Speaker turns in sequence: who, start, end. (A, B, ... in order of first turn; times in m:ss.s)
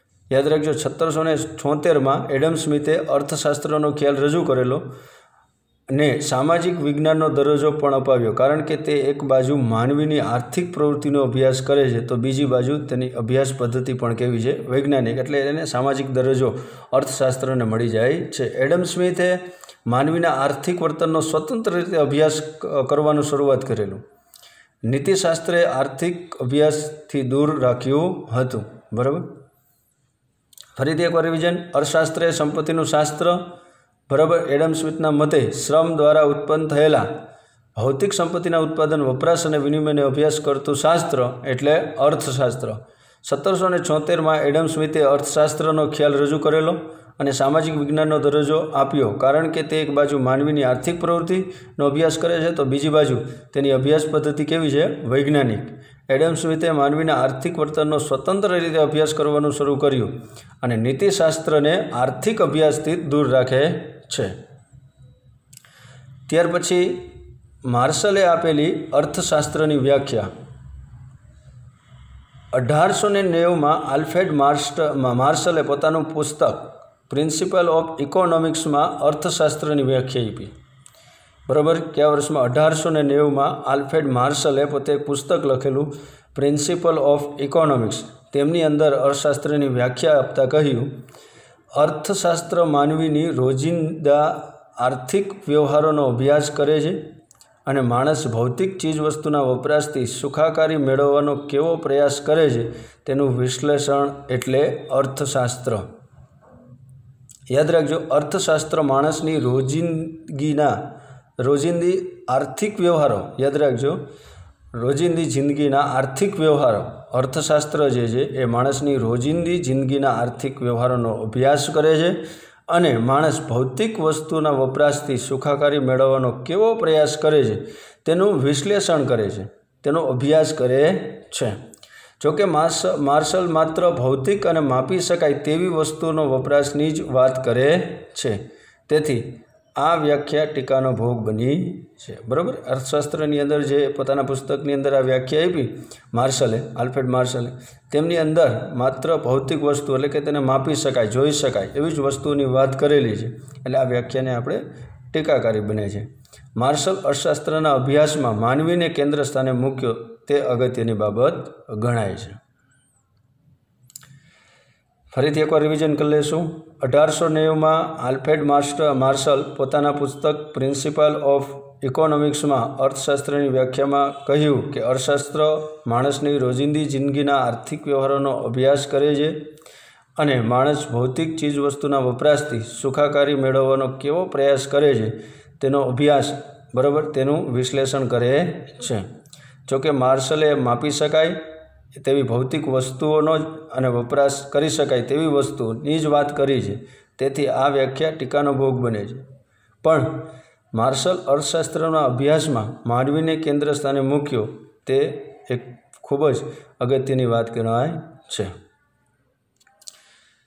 0:00.3-0:04.8 A
0:05.9-0:24.0 A
0:24.8-0:29.3 A
0:30.8-0:33.4 A
0:34.1-0:37.1 A
0:37.8-1:04.3 A
1:06.3-1:10.3 A
1:12.5-1:20.5 A
1:21.5-1:30.9 A
1:31.7-1:37.0 A
1:37.6-1:45.8 A
1:47.5-1:50.8 A
1:51.4-1:54.0 A
1:54.7-2:02.2 A
2:02.7-2:11.6 A
2:12.2-2:42.4 A
2:45.1-2:59.4 A
3:00.2-3:09.1 A
3:09.7-3:11.4 A
3:11.9-3:19.2 A
3:19.8-3:28.5 A